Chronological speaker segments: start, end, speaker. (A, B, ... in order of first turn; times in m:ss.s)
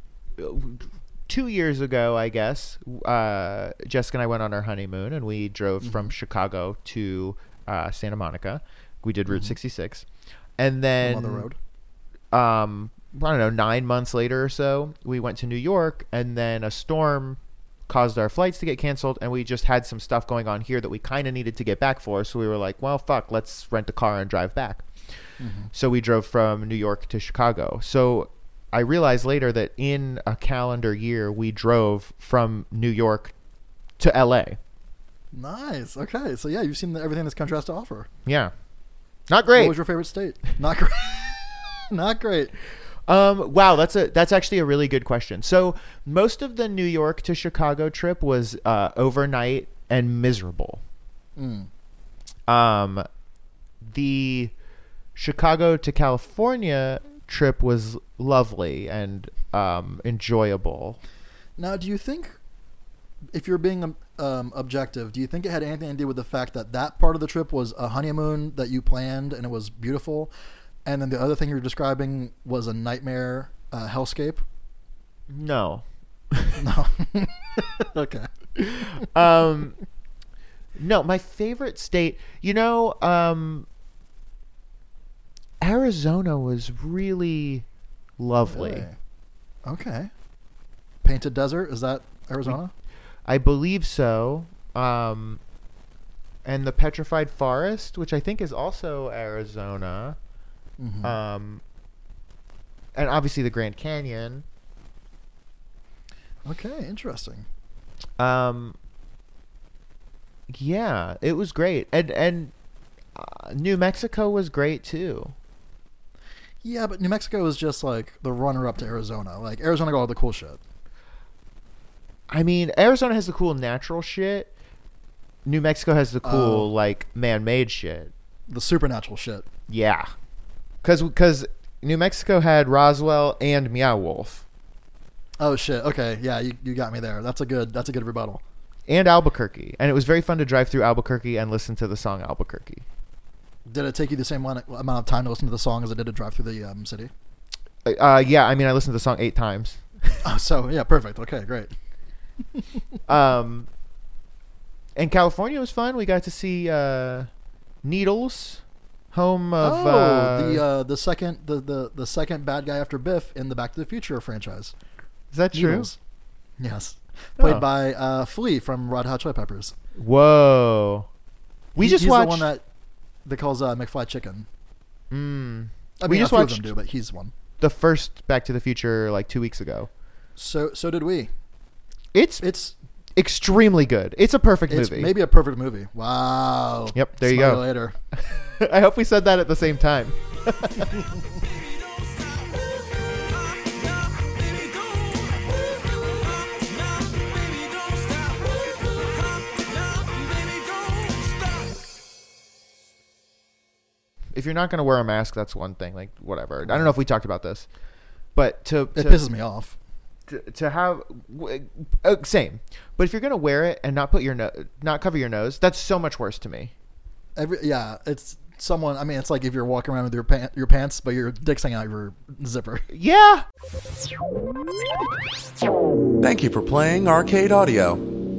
0:00.4-0:10.0 A
0:05.8-0:06.1 B
0:09.3-0:09.6 B
0:10.6-0:11.5 A
0:11.0-0:11.6 B
0:12.3-0:24.8 A
0:25.4-0:25.7 B
0:25.7-0:33.3 A
0:34.0-0:34.6 A
0:35.3-0:38.1 B
0:38.3-0:38.5 A
0:39.3-0:39.8 A
0:39.5-0:42.6 B
0:43.1-0:50.8 A
0:51.4-0:51.7 B
0:52.5-0:53.0 A
0:53.8-0:54.5 A
0:55.2-1:01.0 A
1:01.6-1:02.4 B
1:03.3-1:10.3 B
1:10.8-1:14.4 B
1:15.3-1:16.6 A
1:16.6-1:18.3 B
1:18.6-1:19.8 A
1:20.8-1:23.7 A
1:25.6-1:27.6 A
1:28.2-1:28.9 A
1:28.4-1:29.0 B
1:29.7-1:30.1 B
1:31.0-1:32.7 B
1:33.3-1:35.4 A
1:36.4-1:40.2 A
1:40.8-1:41.2 B
1:41.0-1:41.6 A
1:43.0-1:44.4 A
1:46.4-1:47.5 B
1:48.2-1:48.8 A
1:50.5-1:52.5 A
1:53.2-1:55.3 A
1:56.6-2:00.6 B
2:02.3-2:04.5 A
2:05.4-2:08.1 A
2:06.2-2:06.7 B
2:08.5-2:09.5 B
2:09.7-2:10.0 A
2:10.8-2:14.4 A
2:15.4-2:18.4 B
2:18.9-2:22.8 A
2:23.7-2:27.1 B
2:27.8-2:29.8 A
2:30.2-2:31.7 B
2:33.1-2:33.7 A
2:35.0-2:37.3 A
2:37.8-2:38.6 A
2:39.1-2:40.6 A
2:39.6-2:44.8 B
2:45.3-2:45.9 A
2:45.5-2:46.0 B
2:46.6-2:49.7 B
2:47.4-2:47.6 A
2:50.0-2:51.1 A
2:51.8-2:52.5 A
2:51.8-2:52.6 B
2:53.3-2:54.5 B
2:55.1-2:56.7 A
2:56.0-2:57.3 B
2:57.6-2:59.9 A
3:00.4-3:01.3 B
3:02.1-3:02.5 A
3:02.4-3:02.8 B
3:03.2-3:05.1 A
3:04.7-3:08.0 B
3:06.9-3:07.7 A
3:08.6-3:10.9 A
3:14.4-3:15.1 C
3:17.5-3:18.5 C
3:19.9-3:21.6 C
3:24.4-3:27.7 A
3:26.6-3:26.9 B
3:28.4-3:29.2 A
3:29.0-3:29.8 B
3:30.3-3:36.7 A
3:37.4-3:42.9 B
3:42.9-3:43.4 A
3:46.2-3:48.1 C